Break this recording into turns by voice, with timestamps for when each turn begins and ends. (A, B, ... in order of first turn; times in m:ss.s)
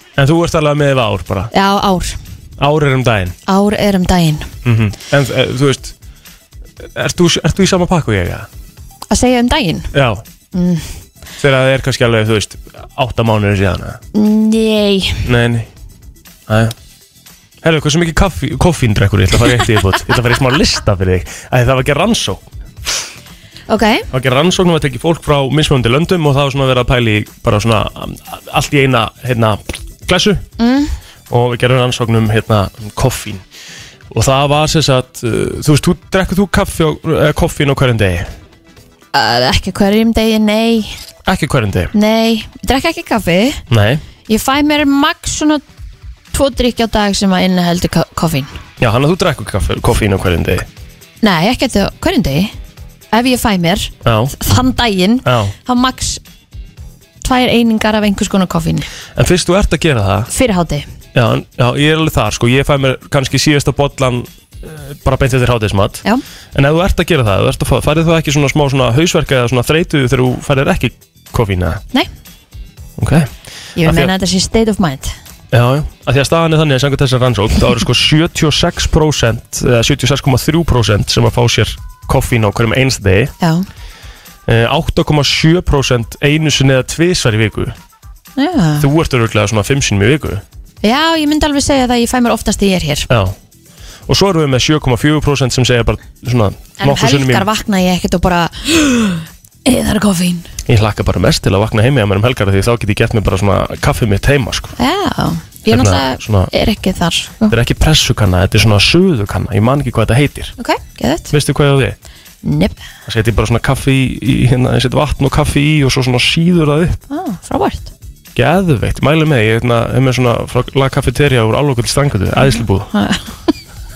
0:00.2-0:01.5 A
0:01.5-0:02.2 B
0:02.6-0:03.3 A
0:03.5-0:04.5 B
0:04.6-0:05.9 A
0:07.0-0:08.5 A
0:09.1-0:09.9 B
0:09.9-0:10.2 A
0:10.5-0:10.8 B
0:11.4-0:14.0 A
0:14.1-0:15.2 B
0:15.2-0:15.7 A
0:16.5-0:16.7 A
0:17.6-0:22.4 A
0:23.7-0:24.1 B
0:24.1-0:30.4 A
0:30.6-0:30.9 B
0:31.3-0:33.4 A
0:34.1-0:38.3 A
0:39.1-0:41.0 B
0:41.2-0:41.9 A
0:41.9-0:43.6 B
0:43.7-0:44.0 A
0:44.3-0:45.6 B
0:46.3-0:48.5 B
0:48.8-0:50.6 A
0:51.2-0:52.5 B
0:53.1-0:56.2 B
0:54.0-0:54.3 A
0:55.2-0:55.5 A
0:57.2-0:58.9 B
0:59.2-1:00.3 A
1:00.3-1:00.9 B
1:01.1-1:06.0 A
1:06.5-1:11.8 A
1:13.0-1:13.3 A
1:13.8-1:15.1 B
1:13.8-1:14.1 A
1:15.5-1:23.3 A
1:23.4-1:23.6 B
1:24.5-1:27.7 A
1:28.4-1:28.9 B
1:28.8-1:30.4 A
1:30.8-1:33.1 B
1:33.1-1:33.3 A
1:34.1-1:37.5 A
1:36.8-1:40.4 B
1:40.7-1:44.8 A
1:44.8-1:47.5 B
1:45.7-1:46.5 A
1:47.5-1:50.6 A
1:50.6-1:51.3 B
1:51.3-1:52.0 A
1:52.4-1:52.8 B
1:53.0-1:57.0 A
1:57.1-1:57.9 B
1:58.3-2:02.9 A
2:02.4-2:03.5 B